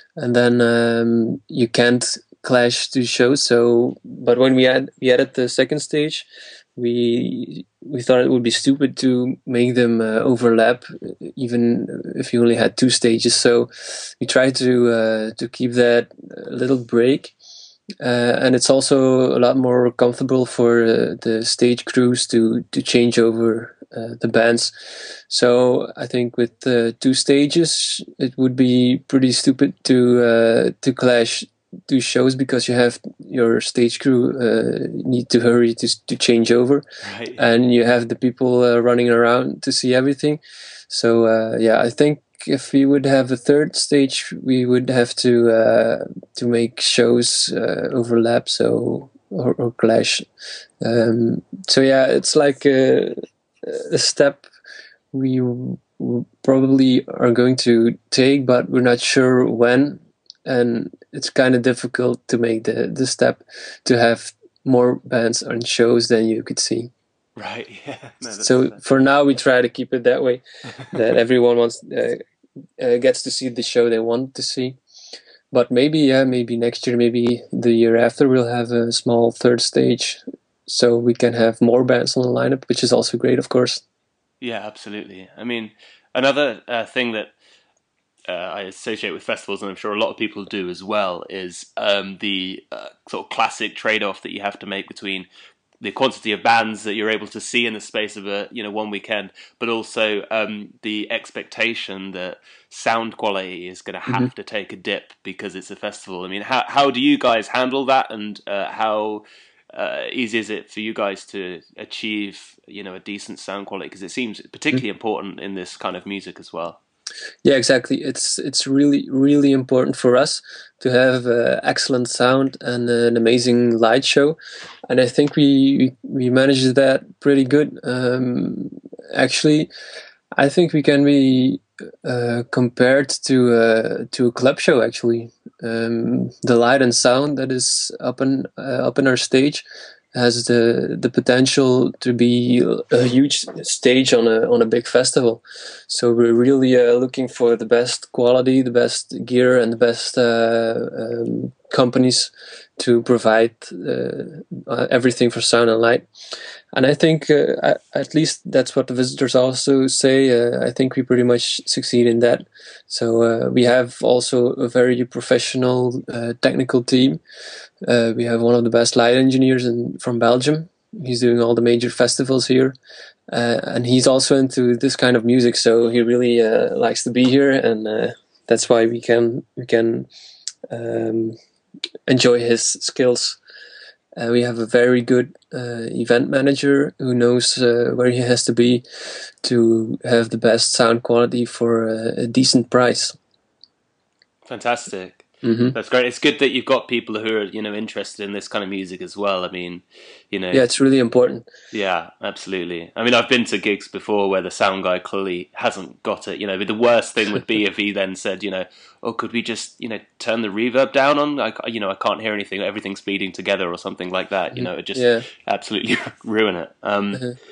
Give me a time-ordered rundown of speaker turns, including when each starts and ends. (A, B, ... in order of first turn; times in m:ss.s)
0:00.2-0:17.3 A
0:18.0-0:36.8 A
0:37.0-0:37.4 B
0:37.4-0:50.2 A
0:50.8-0:54.4 A
0:55.1-1:06.9 A
1:07.4-1:08.8 B
1:08.4-1:12.2 A
1:12.8-1:14.8 A
1:15.5-1:23.8 A
1:24.4-1:27.3 B
1:28.3-1:35.3 B
1:35.8-1:56.8 B
1:57.4-2:04.4 A
2:04.9-2:09.7 A
2:10.4-2:19.6 A
2:20.1-2:36.1 A
2:36.7-2:47.2 A
2:47.8-2:52.8 A
2:53.3-3:00.1 A
3:00.7-3:01.4 A
3:02.1-3:03.4 A
3:04.2-3:13.2 A
3:14.5-3:20.6 B
3:15.4-3:15.8 A
3:20.5-3:21.5 A
3:21.7-3:37.2 B
3:34.5-3:35.3 A